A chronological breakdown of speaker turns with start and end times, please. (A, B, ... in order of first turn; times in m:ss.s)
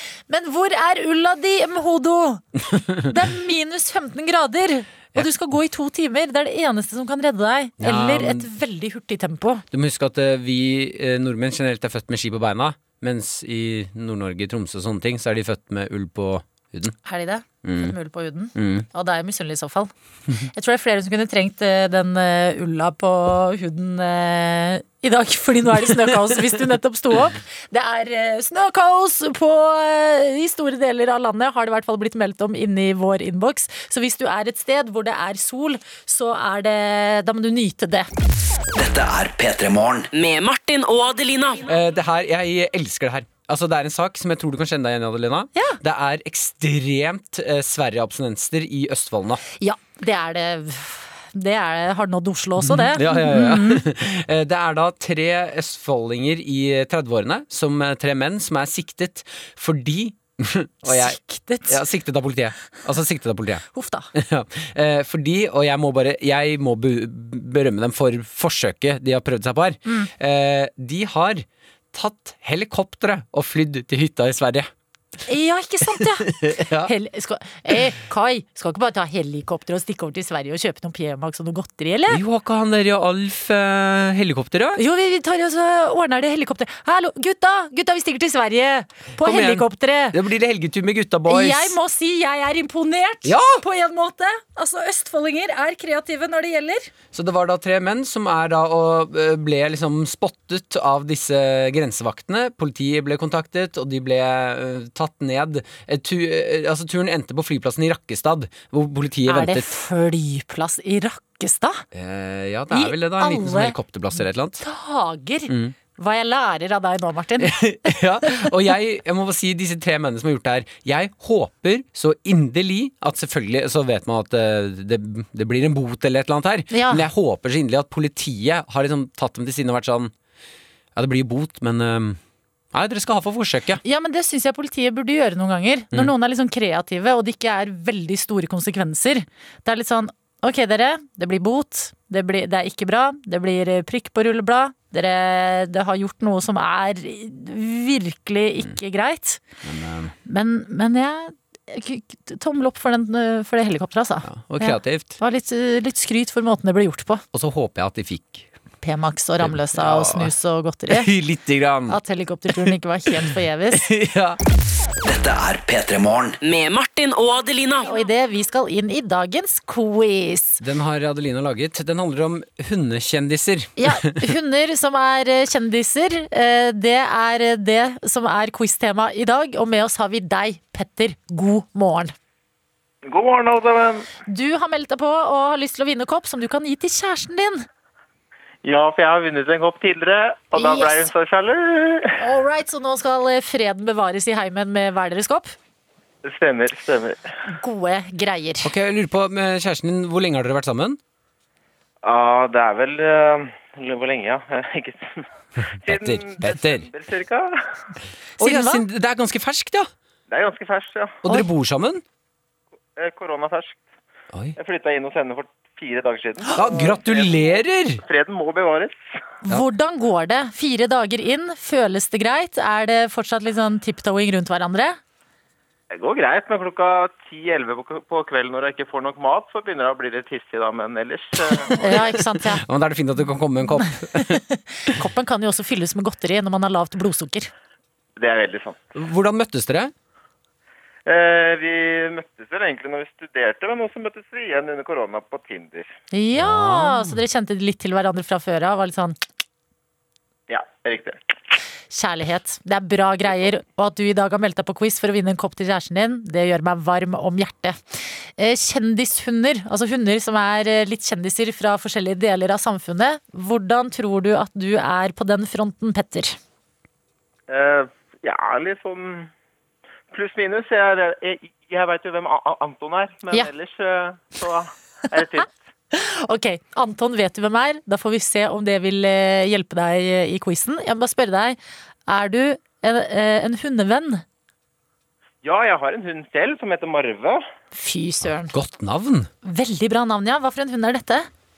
0:00.3-0:02.4 A
0:02.8-0:03.1 B
0:03.0-0:09.6 A
0:07.8-0:08.5 B
0:09.7-0:17.0 B
0:17.0-0:19.9 A
0:17.6-0:17.9 B
0:18.5-0:18.8 B
0:20.5-0:38.1 A
0:38.7-0:40.1 C
0:40.1-0:41.6 D
0:41.6-0:49.4 B
0:49.6-0:53.8 A
0:52.6-1:14.7 B
1:00.8-1:01.8 A
1:03.7-1:04.1 A
1:15.3-1:22.2 A
1:16.0-1:16.9 B
1:22.1-1:24.8 B
1:24.8-1:30.2 A
1:29.2-1:31.7 B
1:31.3-1:36.9 A
1:33.2-1:33.6 B
1:37.1-1:49.7 B
1:49.3-1:51.8 A
1:51.9-1:54.6 B
1:52.7-1:58.4 A
1:55.5-1:55.7 B
1:57.4-2:10.1 B
2:06.7-2:07.0 A
2:10.9-2:12.2 B
2:12.7-2:13.8 B
2:13.8-2:29.4 A
2:29.6-2:30.1 B
2:30.2-2:37.2 A
2:34.2-2:35.2 B
2:37.3-2:38.5 B
2:38.8-2:41.1 A
2:39.4-2:40.3 B
2:40.9-2:42.0 B
2:41.9-2:43.8 A
2:43.7-2:44.4 B
2:45.0-2:46.4 C
2:46.4-2:47.9 D
2:47.8-2:50.6 A
2:50.6-2:54.3 B
2:53.8-3:02.1 A
3:03.0-3:04.1 E
3:04.3-3:07.6 A
3:08.6-3:12.1 E
3:10.6-3:11.1 A
3:12.2-3:15.5 A
3:16.2-3:17.2 E
3:17.5-3:18.7 A
3:18.6-3:21.0 B
3:22.0-3:25.2 E
3:25.8-3:26.9 B
3:25.8-3:27.6 E
3:28.4-3:29.9 B
3:28.4-3:28.8 A
3:30.3-3:31.2 E
3:31.2-3:32.0 B
3:33.0-3:33.8 E
3:34.3-3:34.6 B
3:34.6-3:37.4 E
3:36.6-3:38.0 B
3:38.0-3:38.9 E
3:39.4-3:45.0 A
3:45.9-3:51.7 E
3:51.8-3:52.6 A
3:51.9-3:54.9 B
3:54.8-3:57.5 A
3:58.2-3:58.8 E
3:59.0-3:59.9 B
4:01.0-4:05.9 E
4:06.1-4:09.2 A
4:06.3-4:07.2 B
4:10.5-4:11.2 E
4:11.9-4:26.4 A
4:27.5-4:29.3 E
4:30.1-4:35.5 E
4:35.9-4:44.2 A
4:45.4-4:47.4 E
4:47.7-4:48.5 A
4:48.2-4:49.3 B
4:49.4-4:51.3 A